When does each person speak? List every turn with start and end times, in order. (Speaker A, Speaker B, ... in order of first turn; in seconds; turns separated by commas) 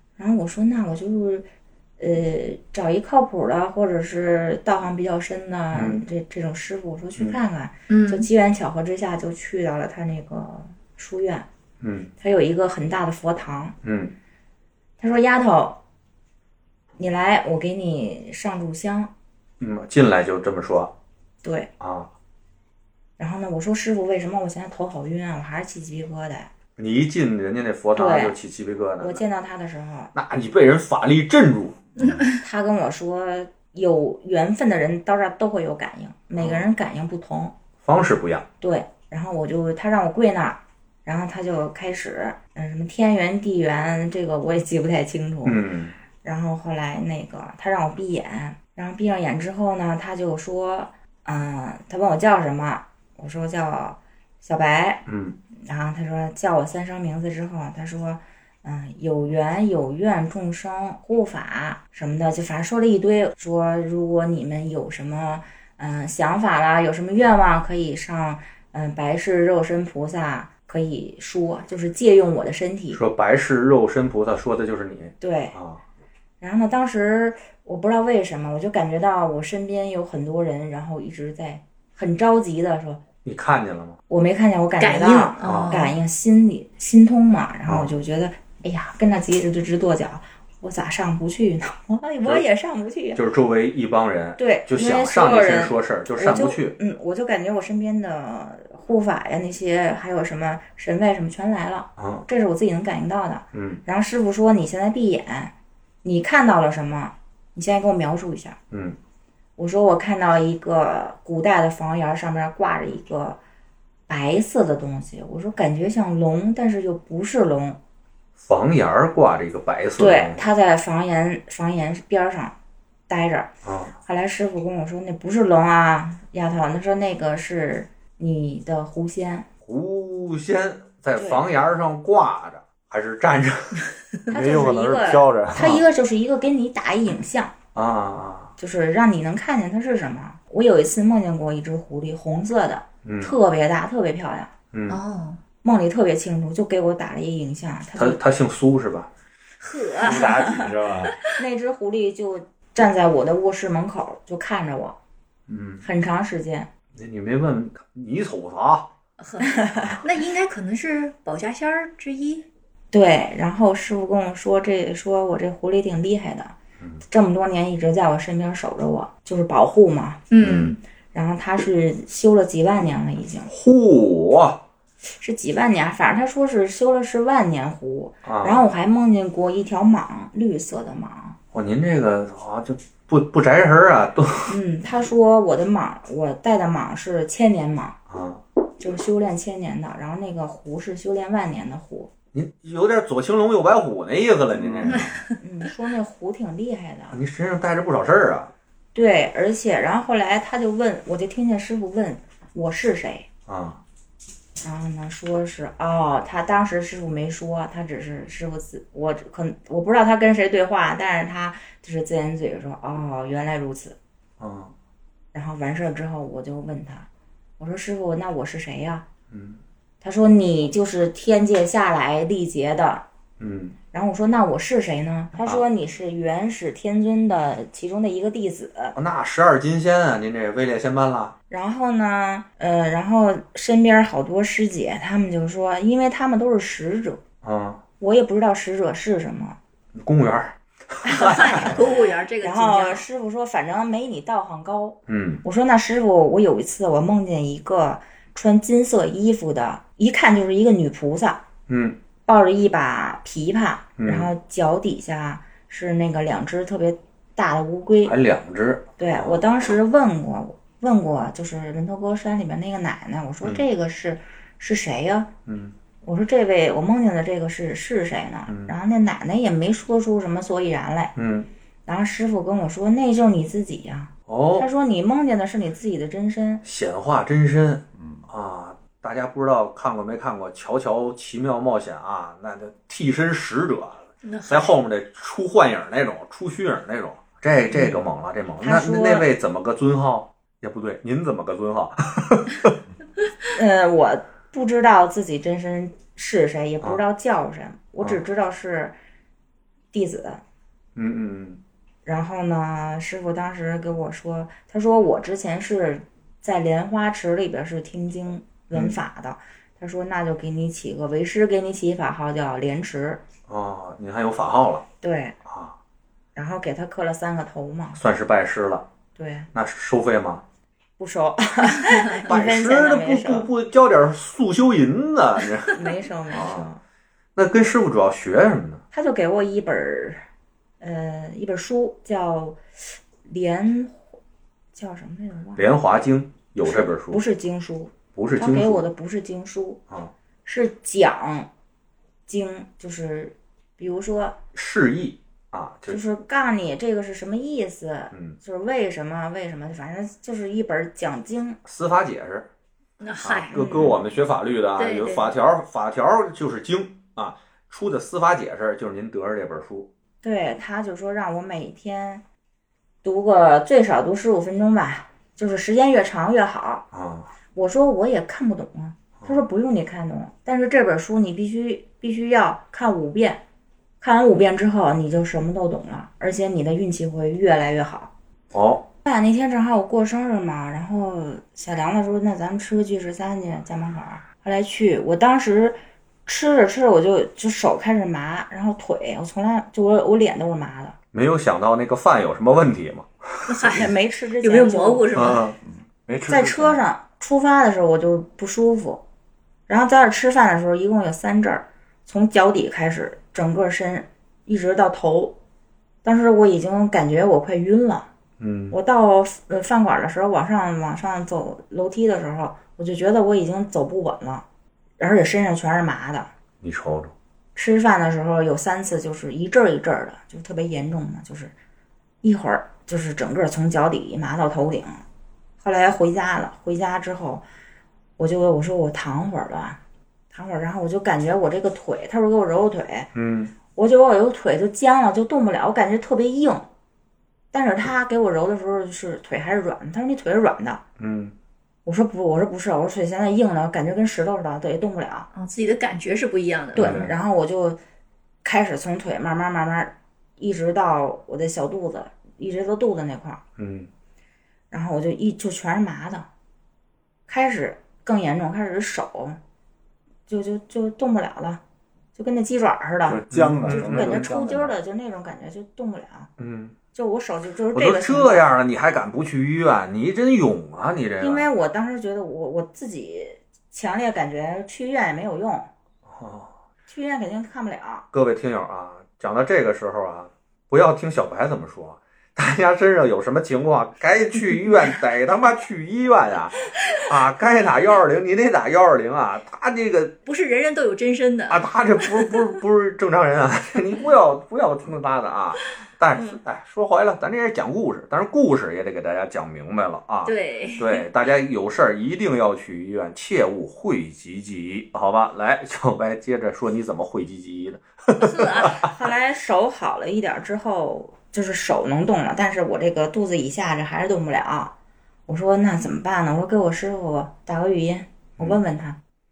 Speaker A: 0.2-1.5, Speaker A: 2.0-11.5, Speaker B: 5.7-6.0, Speaker C: 7.9-8.3, Speaker B: 11.8-12.1, Speaker A: 12.2-13.8, Speaker B: 13.8-14.1, Speaker A: 15.0-15.8, Speaker A: 17.0-19.1, Speaker B: 19.6-20.9, Speaker A: 21.4-21.7, Speaker B: 21.8-22.1, Speaker A: 23.2-26.5, Speaker B: 26.8-29.2, Speaker A: 27.9-28.4, Speaker A: 29.0-30.1, Speaker B: 30.1-32.2, Speaker C: 32.0-32.4, Speaker A: 32.3-37.5, Speaker B: 36.4-36.7, Speaker B: 37.8-38.5, Speaker A: 38.6-45.6, Speaker B: 45.4-46.0, Speaker A: 46.2-55.0, Speaker B: 55.1-55.4, Speaker A: 55.6-73.0, Speaker B: 72.9-75.8, Speaker A: 75.2-75.6, Speaker A: 76.4-83.0, Speaker B: 83.2-84.0, Speaker A: 84.1-93.2, Speaker C: 84.8-86.0, Speaker B: 85.4-85.8, Speaker B: 93.2-96.8, Speaker A: 94.4-105.5, Speaker B: 102.0-102.3, Speaker B: 103.5-103.8, Speaker A: 106.0-108.6, Speaker B: 108.7-109.0, Speaker A: 109.6-113.4, Speaker A: 114.1-117.8, Speaker B: 118.4-120.4, Speaker A: 120.0-122.5, Speaker A: 123.1-123.5, Speaker B: 123.6-123.9, Speaker A: 124.0-129.5, Speaker B: 129.7-133.8, Speaker A: 131.2-131.4, Speaker A: 134.3-137.6, Speaker D: 134.3-135.8, Speaker B: 137.8-138.5, Speaker A: 138.6-144.5, Speaker B: 143.1-143.3, Speaker B: 144.7-145.0, Speaker C: 144.9-145.4, Speaker A: 145.6-148.2, Speaker B: 148.0-149.1, Speaker C: 149.6-150.3, Speaker D: 150.0-151.2, Speaker A: 150.1-150.7, Speaker A: 151.3-155.0, Speaker B: 155.5-155.8, Speaker A: 155.8-156.7, Speaker B: 157.0-158.9, Speaker C: 159.2-162.5, Speaker A: 159.6-159.9, Speaker A: 162.9-166.5, Speaker A: 167.1-170.2, Speaker C: 170.3-170.8, Speaker B: 170.4-170.8, Speaker A: 171.1-173.5, Speaker B: 173.5-174.6, Speaker A: 175.2-181.4, Speaker B: 178.2-178.7, Speaker B: 181.5-184.5, Speaker A: 184.5-188.0, Speaker B: 188.1-188.4, Speaker A: 188.8-192.1, Speaker B: 192.3-195.2, Speaker D: 194.6-195.1, Speaker A: 195.4-197.2, Speaker B: 197.1-198.5, Speaker A: 198.9-203.3, Speaker B: 203.5-203.8, Speaker A: 204.6-214.0, Speaker B: 214.4-214.7, Speaker A: 215.3-217.1, Speaker A: 217.6-219.1, Speaker B: 219.3-219.6, Speaker A: 220.0-223.1, Speaker B: 223.4-223.8, Speaker A: 223.9-229.0, Speaker B: 229.0-231.4, Speaker A: 231.5-237.2, Speaker B: 237.4-237.8, Speaker A: 238.0-239.6, Speaker B: 239.9-241.9, Speaker C: 241.1-243.0, Speaker A: 241.2-241.8, Speaker A: 242.4-251.4, Speaker B: 245.1-245.4, Speaker B: 251.7-252.0, Speaker A: 252.3-258.2, Speaker B: 254.0-254.3, Speaker B: 258.1-259.4, Speaker A: 259.0-265.3, Speaker B: 265.5-265.7, Speaker A: 266.0-271.1, Speaker B: 268.5-268.8, Speaker B: 271.2-271.5, Speaker A: 271.9-276.6, Speaker B: 274.3-274.7, Speaker B: 276.6-292.8, Speaker D: 278.0-278.2, Speaker C: 284.2-284.7, Speaker A: 288.6-289.3, Speaker A: 293.5-298.9, Speaker A: 299.9-300.4, Speaker B: 301.0-301.6, Speaker A: 302.1-313.2, Speaker B: 313.5-314.9, Speaker A: 315.0-315.4, Speaker B: 315.5-315.8, Speaker A: 316.4-318.0, Speaker B: 318.0-318.9, Speaker A: 319.2-319.5, Speaker B: 319.5-320.4, Speaker A: 321.0-323.5, Speaker B: 322.3-326.7, Speaker A: 325.7-326.8, Speaker B: 327.4-328.8, Speaker A: 328.9-330.2, Speaker A: 330.8-332.6, Speaker A: 333.2-334.1, Speaker A: 334.7-335.7, Speaker B: 335.6-337.2, Speaker A: 336.6-339.8, Speaker B: 338.1-338.9, Speaker A: 340.4-341.5, Speaker A: 342.3-344.4, Speaker B: 344.6-346.0, Speaker A: 345.9-351.6, Speaker B: 348.1-348.4, Speaker B: 351.6-352.5, Speaker C: 353.0-353.6, Speaker B: 353.2-359.9, Speaker A: 353.5-354.0, Speaker C: 354.8-355.3, Speaker A: 360.2-362.2, Speaker A: 363.0-366.9, Speaker B: 366.9-367.3, Speaker A: 367.5-373.4, Speaker A: 374.0-378.1, Speaker B: 378.5-378.9, Speaker A: 379.1-390.9, Speaker B: 391.1-393.9, Speaker C: 393.5-395.4, Speaker A: 393.7-395.1, Speaker B: 395.1-395.6, Speaker D: 395.6-396.8, Speaker A: 396.3-399.0, Speaker A: 399.7-405.4, Speaker A: 406.0-408.1, Speaker B: 408.4-408.8, Speaker A: 408.7-414.4, Speaker A: 415.0-416.3, Speaker B: 416.6-417.1, Speaker A: 417.6-421.5, Speaker A: 422.2-425.0, Speaker A: 425.6-427.4, Speaker A: 428.2-429.8, Speaker A: 430.3-433.1, Speaker B: 433.1-433.5, Speaker A: 433.7-436.6, Speaker A: 437.5-440.8, Speaker B: 441.0-441.4, Speaker A: 441.9-445.3, Speaker C: 445.3-447.1, Speaker B: 446.8-447.1, Speaker A: 446.8-447.8, Speaker A: 448.4-453.4, Speaker B: 453.6-453.9, Speaker A: 454.7-456.3, Speaker A: 457.3-459.4, Speaker A: 460.3-461.6, Speaker A: 462.1-466.3, Speaker D: 463.1-464.7, Speaker B: 463.3-464.3, Speaker B: 466.4-466.8, Speaker A: 466.9-468.4, Speaker B: 467.7-471.5, Speaker A: 471.2-475.7, Speaker B: 476.1-476.6, Speaker A: 476.9-478.1, Speaker B: 478.1-490.1, Speaker C: 490.3-492.3, Speaker B: 491.5-508.9, Speaker C: 500.3-501.1, Speaker C: 508.2-508.8, Speaker A: 508.7-514.7, Speaker A: 515.3-519.0